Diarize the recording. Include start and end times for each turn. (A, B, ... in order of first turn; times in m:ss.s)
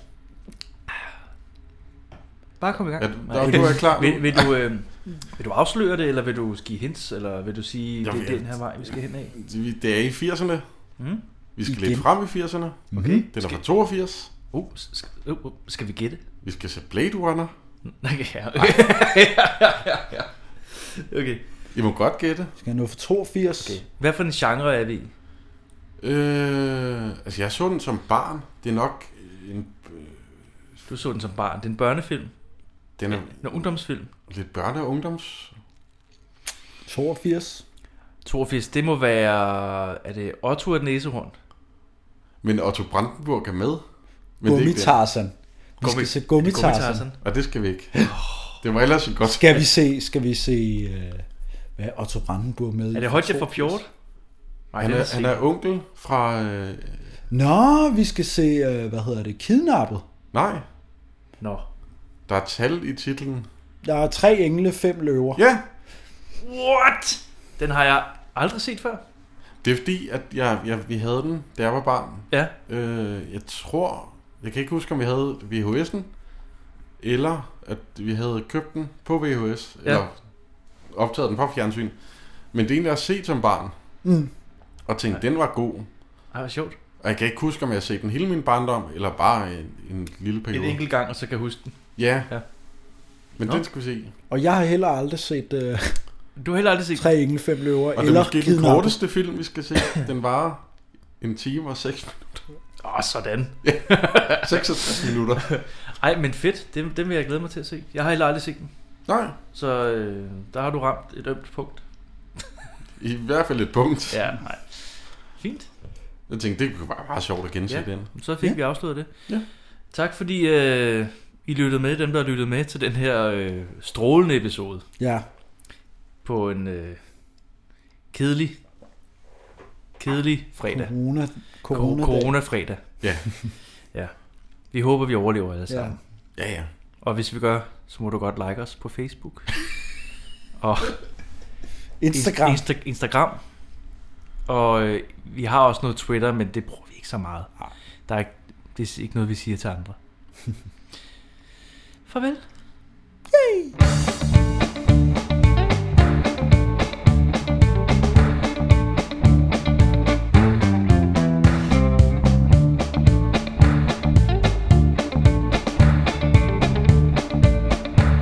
0:02.6-0:09.3 A
0:03.0-0:04.6 B
0:03.4-0:03.8 C
0:08.0-0:08.4 B
0:09.3-0:10.6 B
0:11.6-0:14.3 B
0:11.7-0:12.1 C
0:12.9-0:13.2 C
0:13.0-0:13.6 A
0:14.5-0:16.2 A
0:16.4-0:17.5 B
0:17.8-0:21.4 A
0:21.7-0:22.5 B
0:22.6-0:23.8 C
0:23.6-0:25.1 A
0:26.0-0:30.2 B
0:30.9-0:32.3 A
0:33.0-0:33.7 B
0:33.1-0:34.1 A
0:34.3-0:35.6 B
0:36.9-0:37.6 C
0:38.2-0:41.4 A
0:42.4-0:43.8 B
0:44.4-0:44.9 B
0:44.4-0:47.1 C
0:45.8-0:47.2 A
0:47.2-0:49.6 B
0:48.1-0:48.5 A
0:49.3-0:51.3 C
0:51.8-0:53.8 C
0:52.9-0:53.9 A
0:54.7-0:55.4 A
0:54.8-0:57.0 B
0:57.3-1:00.0 C
1:00.3-1:00.6 B
1:01.4-1:01.7 A
1:02.3-1:03.5 B
1:03.8-1:05.4 C
1:05.4-1:05.6 B
1:06.4-1:09.0 A
1:09.6-1:16.1 B
1:17.0-1:20.1 B
1:20.9-1:22.0 B
1:22.5-1:23.7 B
1:24.0-1:24.3 C
1:24.9-1:25.9 B
1:26.3-1:26.8 A
1:27.0-1:30.8 B
1:30.5-1:31.8 A
1:32.0-1:32.3 B
1:33.4-1:34.1 B
1:34.3-1:36.0 C
1:36.4-1:37.1 A
1:37.0-1:39.0 C
1:38.0-1:40.6 B
1:41.2-1:42.4 B
1:42.8-1:48.7 A
1:43.6-1:45.6 B
1:49.1-1:49.4 B
1:49.5-1:51.8 A
1:53.0-1:54.2 B
1:54.1-1:55.7 A
1:56.3-1:58.1 B
1:57.7-1:59.1 A
1:59.9-2:04.8 A
2:05.0-2:05.3 C
2:06.2-2:07.0 A
2:08.1-2:08.6 A
2:10.0-2:10.9 A
2:10.7-2:12.4 C
2:11.7-2:12.8 A
2:13.0-2:13.3 B
2:14.7-2:16.0 A
2:15.7-2:16.0 C
2:16.4-2:16.7 B
2:17.0-2:19.7 A
2:20.6-2:21.0 A
2:22.0-2:22.6 C
2:22.1-2:23.4 A
2:24.5-2:27.5 A
2:28.1-2:30.0 A
2:32.1-2:32.4 A
2:33.3-2:33.7 C